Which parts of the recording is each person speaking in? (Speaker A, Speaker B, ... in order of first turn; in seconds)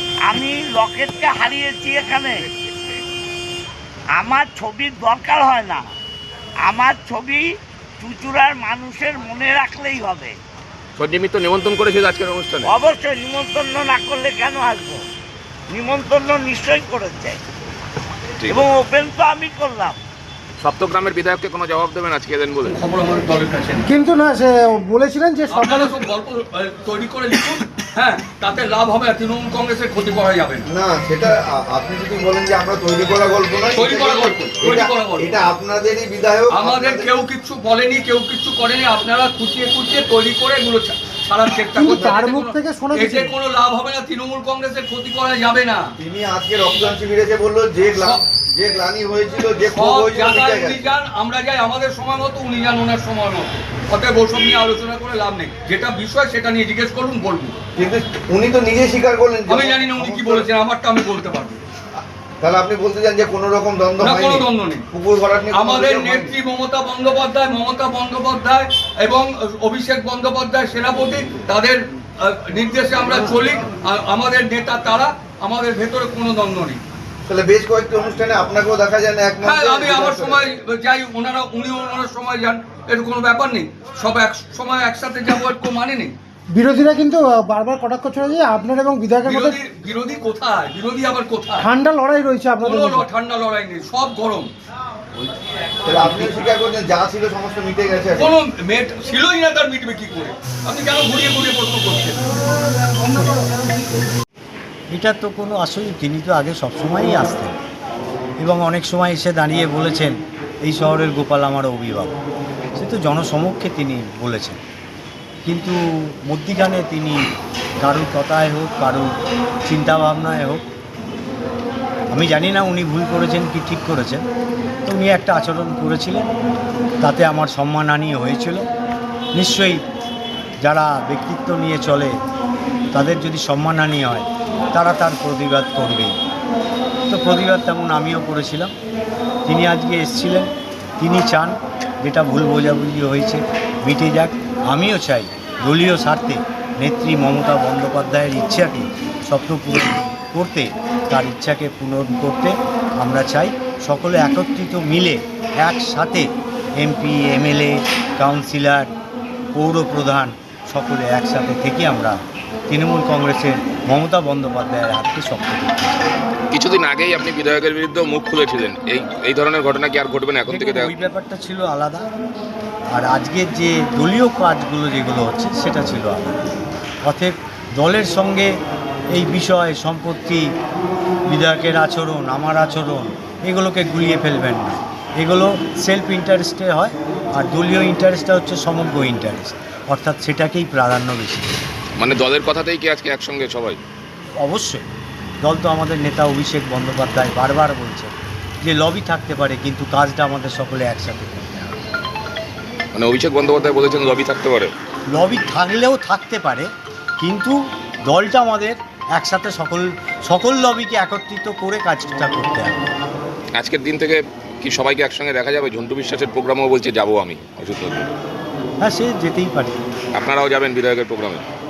Speaker A: 0.2-2.5, 4.1-5.8, 6.6-7.5, 8.0-10.4, 12.6-15.0, 15.7-17.4, 18.5-20.0
Speaker B: 10.9-12.7, 18.4-18.7, 20.6-22.8, 166.5-170.9, 192.0-193.8, 202.9-204.7, 213.6-218.1, 220.1-221.4
Speaker C: 22.7-24.0, 25.5-30.7, 33.7-35.5, 36.5-46.0, 47.9-48.2, 49.7-57.5, 59.5-61.6, 64.0-64.8, 65.5-76.8, 79.4-86.1, 89.2-91.8, 92.5-94.5, 98.2-102.2, 103.0-103.4
Speaker D: 23.9-25.9, 41.8-43.3, 86.5-89.5, 91.6-93.0
Speaker E: 30.6-37.1, 46.0-50.9, 57.8-60.5, 62.4-66.3, 77.2-80.5, 95.8-98.3
Speaker F: 104.9-107.5, 108.4-112.1, 112.7-114.6, 115.4-117.2, 117.8-119.1, 119.7-120.6, 122.1-124.2, 124.8-126.3, 127.0-128.7, 129.3-129.8, 130.6-132.1, 132.9-136.2, 137.1-138.7, 139.4-158.9, 159.5-166.1, 170.5-172.1, 172.9-176.4, 177.0-178.5, 179.1-180.5, 181.3-191.6, 194.4-194.8, 195.4-201.8, 205.1-212.8, 218.8-219.8